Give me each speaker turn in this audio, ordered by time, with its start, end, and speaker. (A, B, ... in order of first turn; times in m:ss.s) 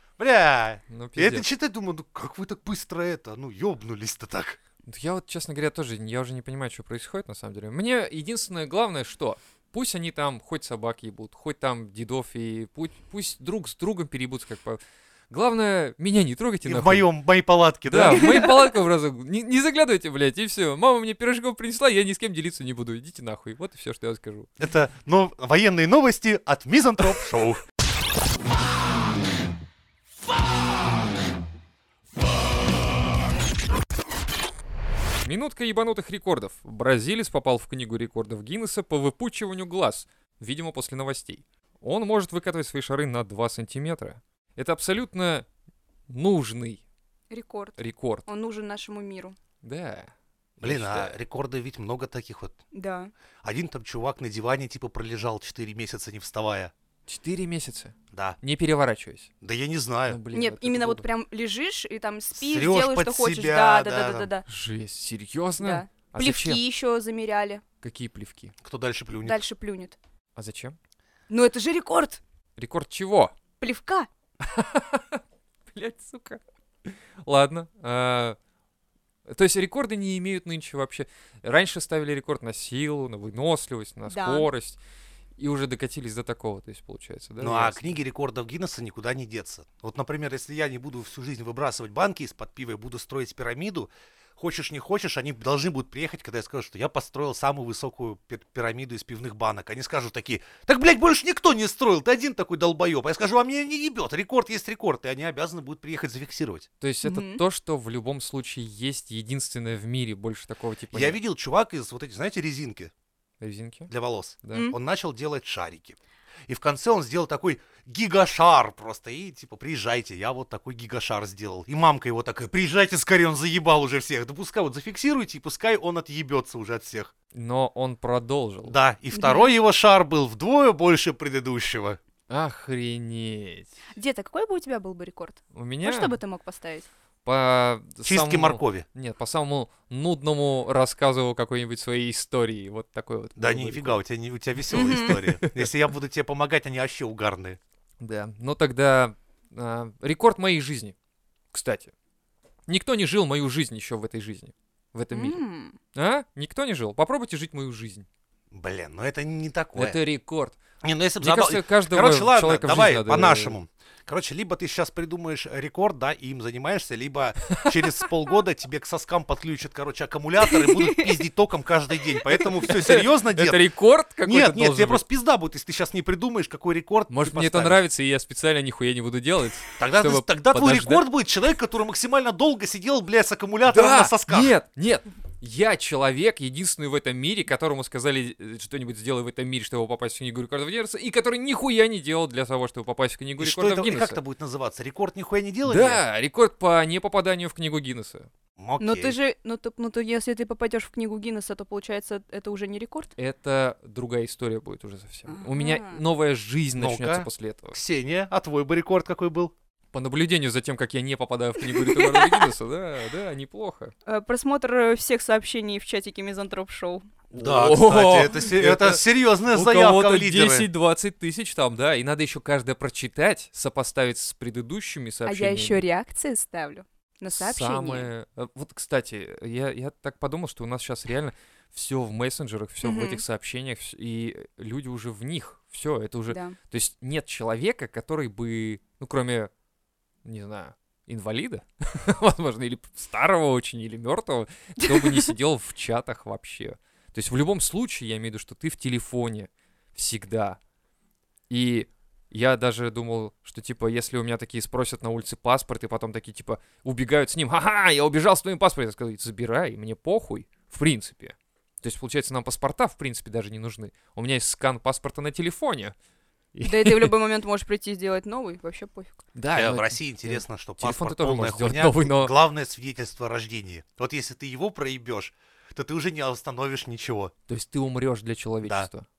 0:00.2-0:04.6 A
0:00.9-0:01.5 B
0:04.9-0:17.1 B
0:16.6-0:18.5 A
0:17.9-0:24.5 B
0:24.6-0:27.6 A
0:35.2-0:45.5 B
0:46.1-0:46.8 B
0:47.3-0:49.4 C
0:47.8-0:48.3 B
0:49.6-0:51.2 B
0:50.6-0:52.6 A
0:52.7-0:53.1 C
0:53.4-0:56.7 A
0:57.1-0:59.3 B
0:58.1-0:58.4 A
0:59.4-1:00.2 A
1:00.1-1:01.1 B
1:00.3-1:04.5 C
1:02.4-1:04.3 A
1:04.5-1:06.6 B
1:05.6-1:07.6 C
1:07.8-1:08.5 B
1:08.6-1:09.4 A
1:09.2-1:10.0 C
1:10.4-1:10.8 B
1:11.3-1:12.2 C
1:12.6-1:13.3 B
1:13.6-1:14.1 C
1:14.4-1:15.2 B
1:15.7-1:18.4 B
1:19.3-1:24.8 B
1:24.1-1:24.5 C
1:25.4-1:28.0 B
1:27.4-1:46.7 A
1:46.8-1:51.2 B
1:47.0-1:47.4 C
1:50.9-1:52.9 A
1:53.4-1:53.9 B
1:53.9-2:07.1 A
1:54.4-1:54.7 B
2:07.3-2:08.8 B
2:08.7-2:12.0 A
2:09.1-2:09.5 C
2:12.3-2:13.7 B
2:14.0-2:16.9 C
2:15.5-2:16.2 B
2:17.2-2:24.0 B
2:18.0-2:18.9 A
2:23.4-2:27.6 A
2:24.7-2:25.2 C
2:25.1-2:25.7 B
2:28.0-2:30.9 B
2:31.5-2:31.9 B
2:32.7-2:35.4 B
2:35.1-2:35.8 C
2:35.9-2:38.1 B
2:38.5-2:40.0 A
2:39.8-2:40.6 B
2:40.8-2:53.6 A
2:41.2-2:43.6 B
2:50.5-2:51.1 C
2:52.7-2:55.0 B
2:54.2-2:57.8 A
2:57.1-3:01.1 B
2:59.8-3:04.5 A
3:03.7-3:14.2 B
3:13.4-3:16.0 A
3:15.6-3:18.3 B
3:18.6-3:19.2 A
3:18.8-3:23.1 C
3:23.2-3:27.8 B
3:25.3-3:26.0 C
3:26.8-3:29.5 A
3:29.9-3:33.9 B
3:31.8-3:32.4 C
3:34.1-3:37.1 C
3:37.3-3:40.7 A
3:37.3-3:45.8 B
3:45.3-3:48.1 C
3:47.3-3:59.5 B
3:52.8-3:53.2 C
3:56.3-3:56.6 C
4:00.2-4:10.6 B
4:04.9-4:05.3 C
4:11.5-4:25.9 B
4:26.5-4:27.1 B
4:26.6-4:29.2 C
4:29.3-4:32.3 B
4:29.6-4:37.3 A
4:37.5-4:39.1 B
4:38.6-4:38.9 A